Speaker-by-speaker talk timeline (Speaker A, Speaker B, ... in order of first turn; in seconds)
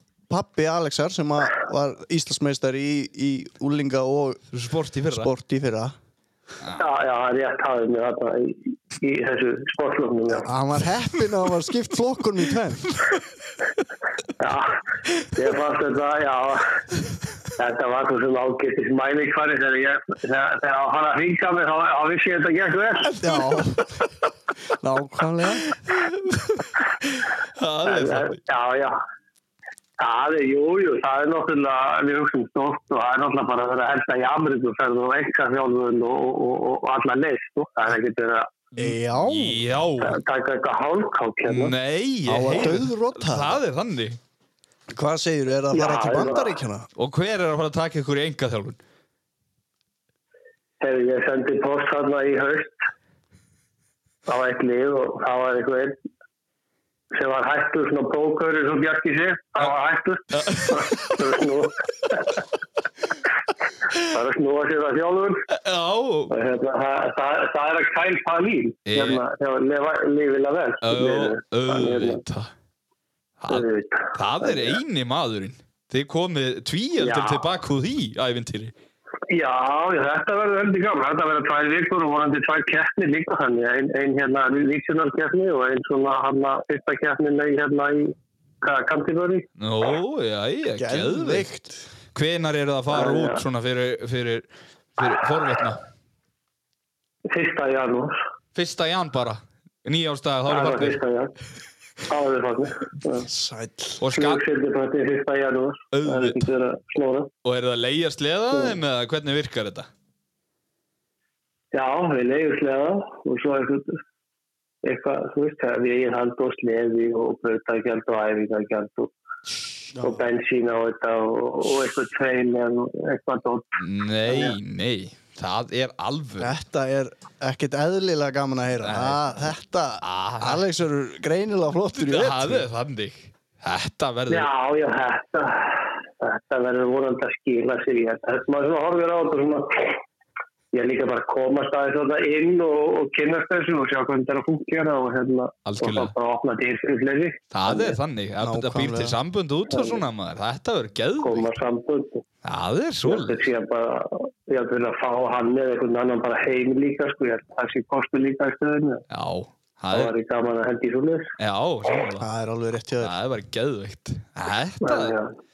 Speaker A: 0.3-4.4, 5.1-5.9, 10.3-12.9, 23.2-23.9, 24.8-25.7, 38.8-39.6, 42.3-43.6, 44.9-46.9, 90.8-91.8, 103.2-104.0, 119.9-120.2, 126.4-132.7, 148.4-149.2, 162.2-163.1
Speaker B: 4.5-5.3, 25.7-28.4, 38.8-40.2, 41.5-44.2, 47.0-48.8, 60.3-61.2, 65.5-66.3, 68.8-69.2, 70.8-72.5, 73.4-78.7, 89.6-91.5, 92.1-94.5, 95.0-95.8, 98.5-101.0, 104.0-104.4, 105.9-106.5, 107.4-109.9, 123.8-126.5, 128.8-129.2, 130.0-130.7, 131.9-134.5, 145.6-146.1, 147.5-151.5, 152.4-153.4, 159.1-160.1, 161.4-162.3, 163.0-165.1
Speaker C: 6.8-10.5, 14.4-14.8, 15.3-16.8, 17.6-23.2, 27.9-29.0, 30.0-38.5, 40.0-41.7, 45.7-46.5, 50.8-52.8, 54.3-56.0, 57.1-62.4, 63.9-65.5, 66.3-72.2, 73.5-74.8, 77.0-77.5, 79.3-89.5, 92.9-93.4, 97.3-98.2, 100.5-101.3, 102.1-103.3, 104.1-107.3, 108.5-108.8, 111.7-114.0, 114.8-119.1, 120.0-124.5, 134.3-140.0, 140.7-148.0, 149.7-150.0, 151.2-152.2, 153.0-159.0, 159.9-161.3, 164.8-165.3